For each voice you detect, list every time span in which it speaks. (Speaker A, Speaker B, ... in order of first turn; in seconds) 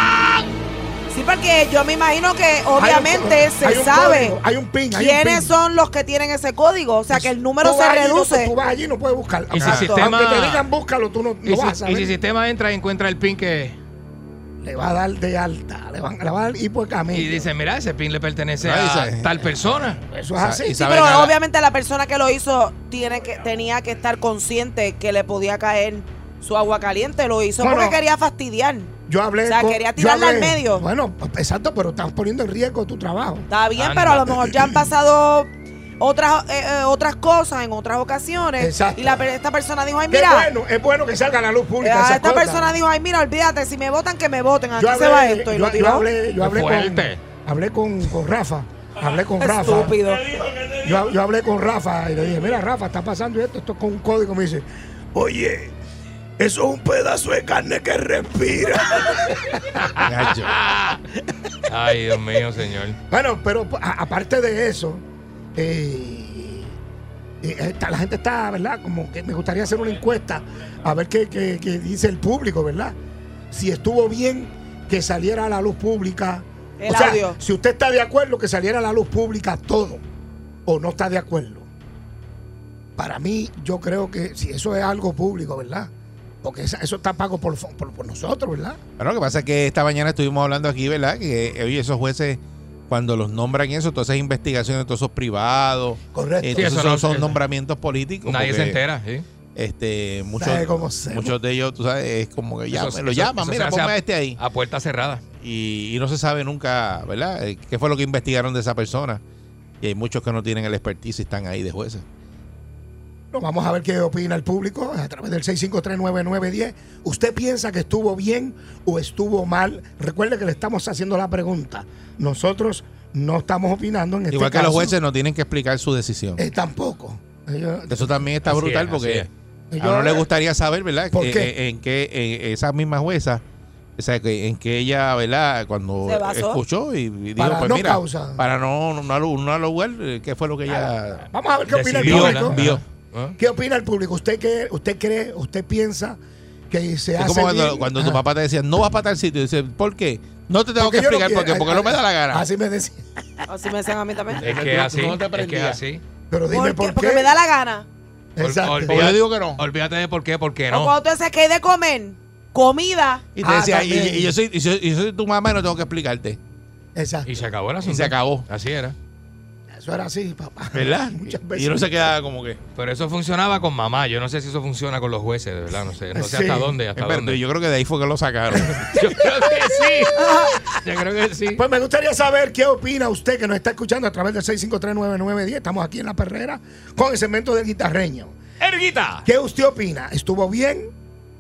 Speaker A: 1.1-4.4, 4.9-8.5, 9.7-10.1, 20.8-28.9, 29.5-30.9, 33.5-40.5, 41.8-46.1, 49.4-50.3, 76.8-77.4, 136.0-136.6, 153.5-154.4, 156.5-157.9, 160.7-163.2
Speaker B: 2.8-5.5, 7.1-12.2, 14.6-17.5, 20.1-20.8, 27.6-28.0, 29.1-33.5, 38.6-39.3, 40.1-42.7, 44.8-50.0, 50.8-55.8, 56.4-59.9, 63.1-65.0, 65.5-66.8, 67.4-73.0, 73.5-80.0, 80.7-81.7, 83.0-85.9, 86.4-88.8, 96.1-96.8, 100.4-101.4, 113.3-125.0, 126.4-128.3, 129.7-130.3, 131.1-131.5, 137.4-138.4, 140.7-142.8, 143.4-146.2, 146.7-148.2, 150.8-153.1, 156.3-157.3, 158.4-159.1, 163.4-164.3, 166.9-167.5, 169.7-172.1, 176.2-176.8, 180.2-180.6, 181.5-188.4, 189.2-190.9
Speaker C: 9.5-10.7, 11.5-13.8, 17.1-20.0, 33.8-34.4, 46.4-47.2, 60.7-61.0, 61.7-63.0, 96.6-97.4, 98.2-99.3, 102.7-105.2, 128.5-129.3, 141.7-142.6, 143.1-143.4, 154.4-156.0, 158.4-160.9, 167.3-169.0, 172.8-177.4, 179.0-181.6, 188.6-189.3
Speaker D: 18.6-19.3, 20.4-21.4, 60.0-60.5, 89.0-98.8, 99.6-104.4, 105.4-109.2, 109.8-112.0, 124.3-126.4, 127.9-129.3, 129.8-133.4, 134.0-141.3, 141.9-142.8, 147.2-152.4, 154.4-155.8, 158.8-159.6, 163.4-166.4, 167.8-168.5, 170.7-172.6, 176.9-179.1